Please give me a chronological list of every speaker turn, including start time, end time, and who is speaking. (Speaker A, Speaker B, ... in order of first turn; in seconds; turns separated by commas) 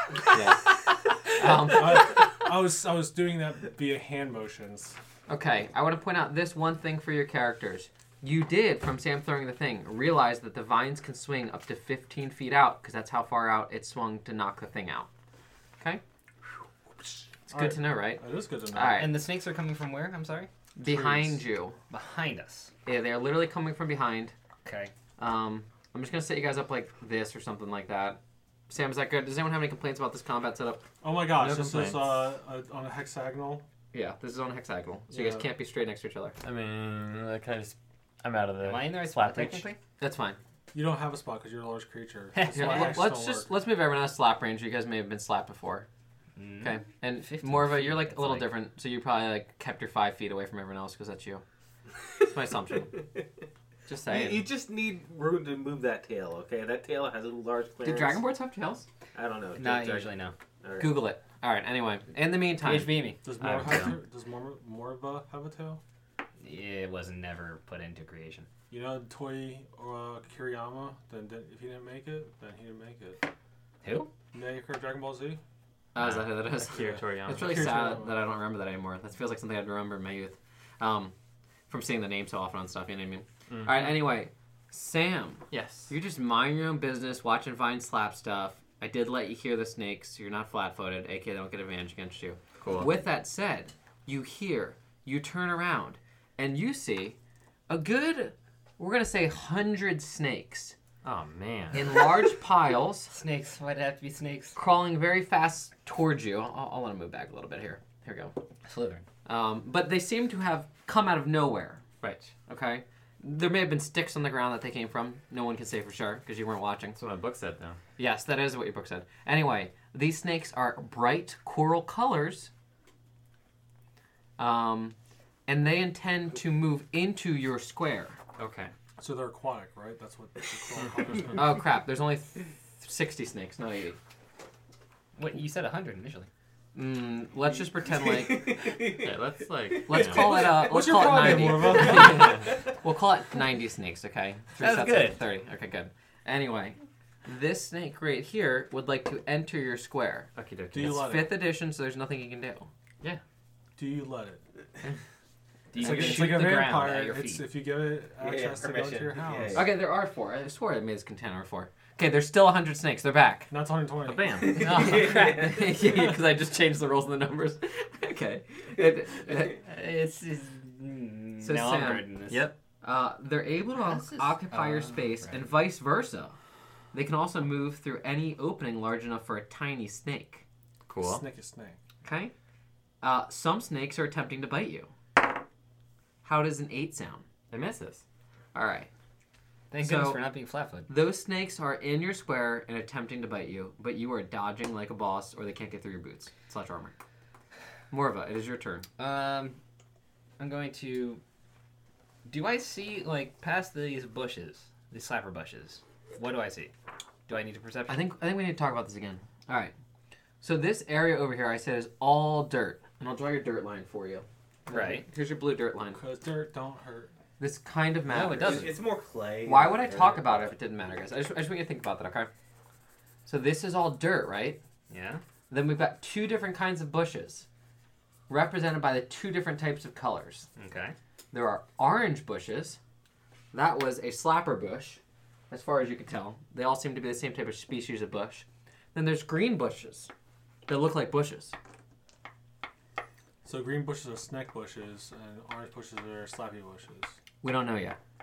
Speaker A: 0.1-2.2, Speaker B: 1.4-5.0, Speaker A: 5.3-15.1, Speaker B: 17.5-19.1, Speaker A: 17.5-19.1, Speaker C: 18.9-20.5, Speaker A: 20.8-21.8, Speaker B: 20.8-21.4, Speaker C: 21.9-22.7, Speaker A: 22.9-24.3, Speaker C: 24.6-24.9, Speaker A: 25.2-30.9, Speaker B: 31.0-33.6, Speaker A: 31.4-32.0, Speaker D: 31.4-32.0, Speaker A: 33.9-36.4, Speaker B: 35.1-35.5, Speaker D: 36.4-39.6, Speaker C: 38.6-39.8, Speaker A: 40.0-40.4, Speaker B: 40.7-43.5, Speaker C: 42.3-43.0, Speaker A: 42.5-45.9, Speaker C: 46.4-48.5, Speaker A: 46.6-51.4, Speaker A: 52.2-52.9, Speaker A: 53.9-54.4, Speaker E: 54.0-58.2, Speaker A: 57.8-58.9, Speaker E: 59.1-61.0, Speaker C: 59.5-60.3, Speaker A: 60.8-63.1, Speaker C: 62.6-63.2, Speaker B: 63.2-65.8, Speaker D: 63.4-64.0, Speaker C: 66.4-68.5, Speaker B: 68.7-73.2, Speaker C: 73.8-74.1, Speaker B: 74.3-75.4, Speaker A: 75.9-81.1, Speaker D: 76.0-77.7, Speaker B: 76.8-78.2, Speaker A: 81.7-97.2, Speaker D: 83.5-84.0, Speaker D: 85.5-85.9, Speaker D: 92.6-92.9, Speaker A: 97.7-100.8, Speaker D: 101.0-102.0, Speaker A: 101.7-103.1, Speaker C: 103.1-104.6, Speaker A: 104.5-108.3, Speaker C: 108.6-109.0, Speaker A: 109.2-111.8, Speaker D: 112.0-112.3, Speaker A: 112.5-117.0, Speaker D: 116.9-117.8, Speaker A: 118.0-122.5, Speaker A: 124.4-125.0, Speaker A: 125.5-128.2, Speaker D: 128.4-128.7, Speaker B: 129.0-131.6, Speaker A: 131.3-134.0, Speaker C: 135.2-136.3, Speaker A: 136.7-138.6, Speaker E: 137.5-140.1, Speaker D: 138.9-140.5, Speaker A: 139.9-152.7, Speaker B: 140.5-142.4, Speaker C: 144.6-145.2, Speaker D: 150.3-151.0, Speaker B: 150.7-151.4, Speaker B: 153.8-154.4, Speaker C: 155.7-157.4, Speaker A: 155.8-156.6, Speaker B: 155.8-159.7, Speaker E: 158.2-159.7, Speaker A: 159.5-163.5, Speaker B: 163.5-164.5, Speaker D: 164.0-164.7, Speaker E: 164.4-165.8, Speaker C: 164.6-165.5, Speaker A: 164.6-169.6, Speaker C: 169.5-172.5, Speaker A: 171.4-172.1, Speaker D: 172.3-172.6, Speaker A: 172.8-176.3, Speaker C: 173.7-175.4, Speaker A: 176.9-180.4, Speaker D: 180.9-181.2, Speaker B: 181.0-181.8, Speaker A: 182.0-182.3, Speaker A: 183.0-184.9, Speaker A: 186.2-187.2, Speaker D: 187.5-188.0, Speaker A: 188.5-188.9, Speaker C: 189.7-190.9, Speaker A: 189.8-190.2, Speaker A: 190.9-196.9, Speaker A: 197.9-198.9, Speaker C: 199.0-199.6, Speaker C: 200.4-201.2, Speaker C: 202.2-206.7, Speaker C: 207.3-208.0, Speaker A: 207.9-209.7, Speaker A: 210.4-216.0, Speaker C: 214.7-215.1, Speaker B: 215.9-217.1, Speaker A: 217.4-218.7, Speaker C: 218.1-218.8, Speaker E: 218.4-220.5, Speaker A: 219.4-222.3, Speaker A: 223.2-224.6, Speaker C: 224.9-225.2, Speaker A: 225.5-227.4, Speaker A: 228.3-230.5, Speaker C: 230.6-230.9, Speaker A: 231.3-232.8, Speaker A: 233.5-240.1, Speaker A: 240.7-241.5, Speaker B: 243.4-247.2, Speaker A: 247.4-248.0